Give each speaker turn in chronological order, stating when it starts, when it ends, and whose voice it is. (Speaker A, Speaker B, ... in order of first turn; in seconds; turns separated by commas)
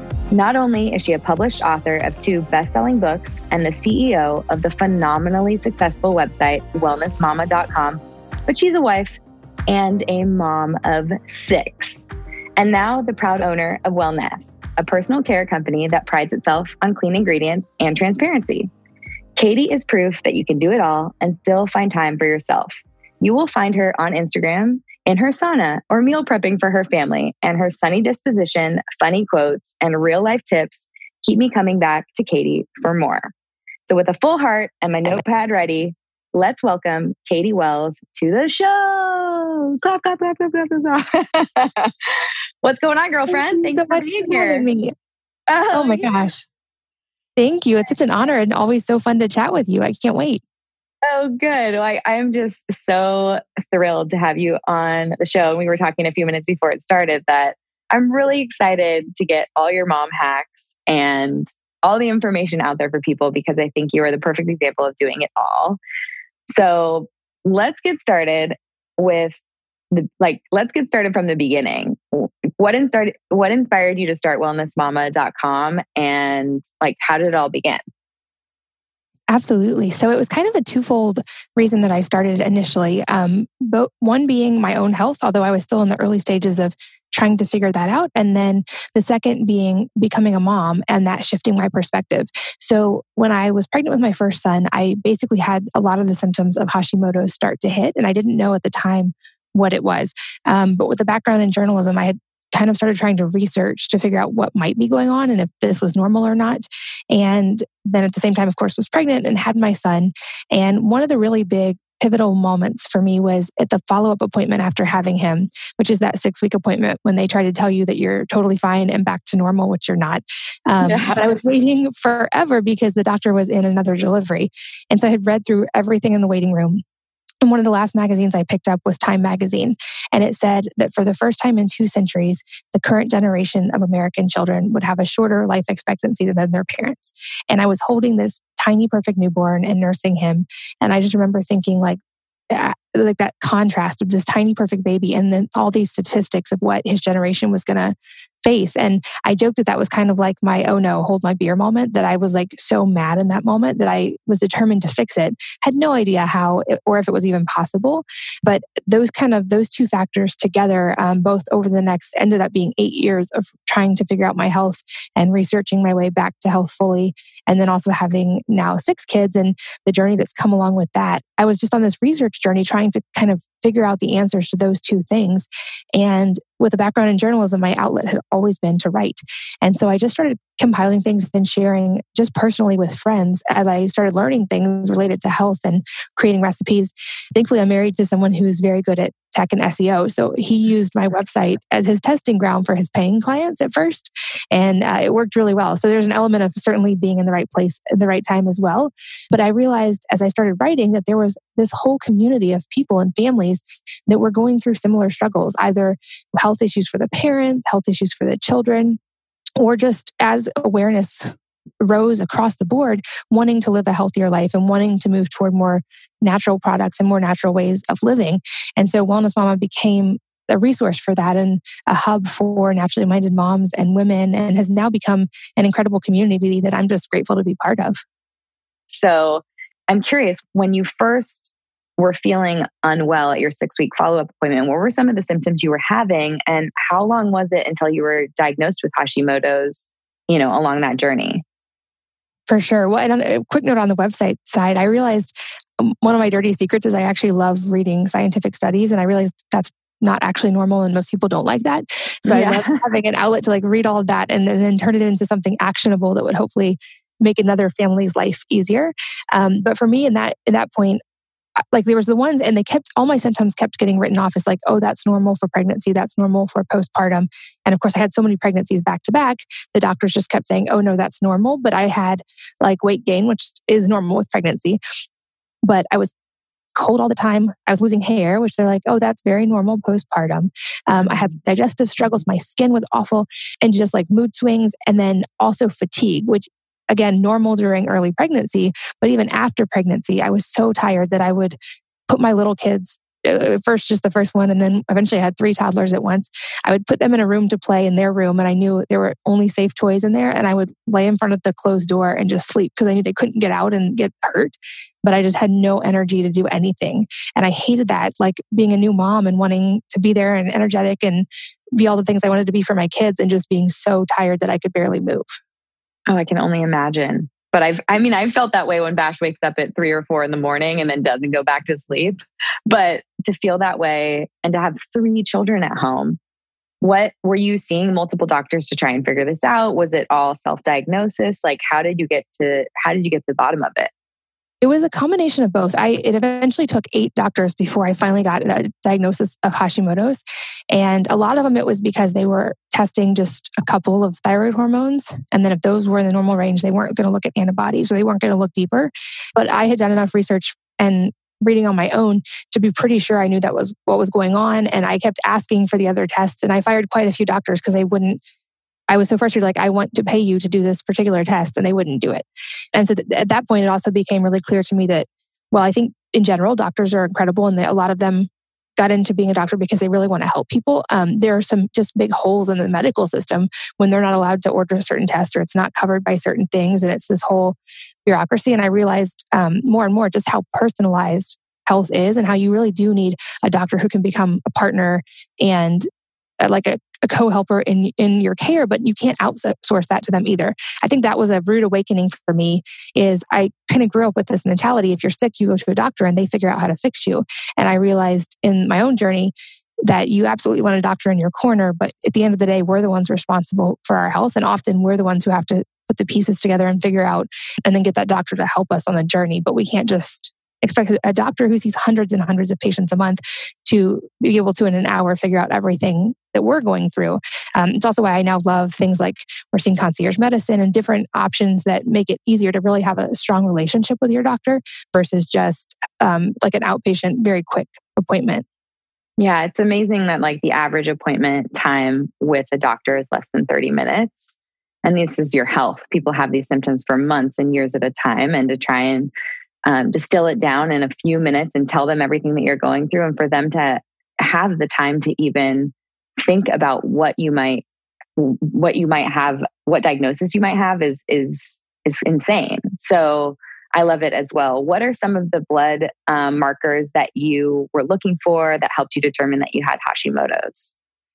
Speaker A: 0.3-18.7, Speaker A: 19.4-33.3, Speaker A: 33.9-42.1, Speaker A: 42.6-44.7, Speaker B: 43.3-44.9, Speaker A: 45.5-46.1, Speaker B: 45.7-46.5, Speaker B: 47.4-50.4, Speaker A: 51.1-65.8, Speaker A: 66.5-69.4, Speaker A: 69.9-77.8, Speaker B: 79.3-126.8, Speaker A: 120.8-121.4, Speaker B: 127.4-142.0, Speaker B: 142.5-209.0, Speaker B: 209.6-228.0, Speaker A: 228.9-241.4, Speaker B: 242.5-261.0, Speaker A: 252.3-252.8, Speaker B: 261.7-274.8, Speaker B: 275.6-276.1, Speaker B: 276.8-291.6, Speaker A: 281.0-281.3, Speaker B: 292.1-315.3, Speaker A: 316.1-322.2, Speaker A: 322.7-326.2, Speaker A: 326.8-333.9, Speaker B: 334.6-358.2, Speaker B: 358.9-385.9, Speaker B: 386.4-399.3, Speaker B: 399.9-428.4, Speaker A: 429.2-439.1, Speaker A: 439.7-447.6, Speaker A: 448.2-460.7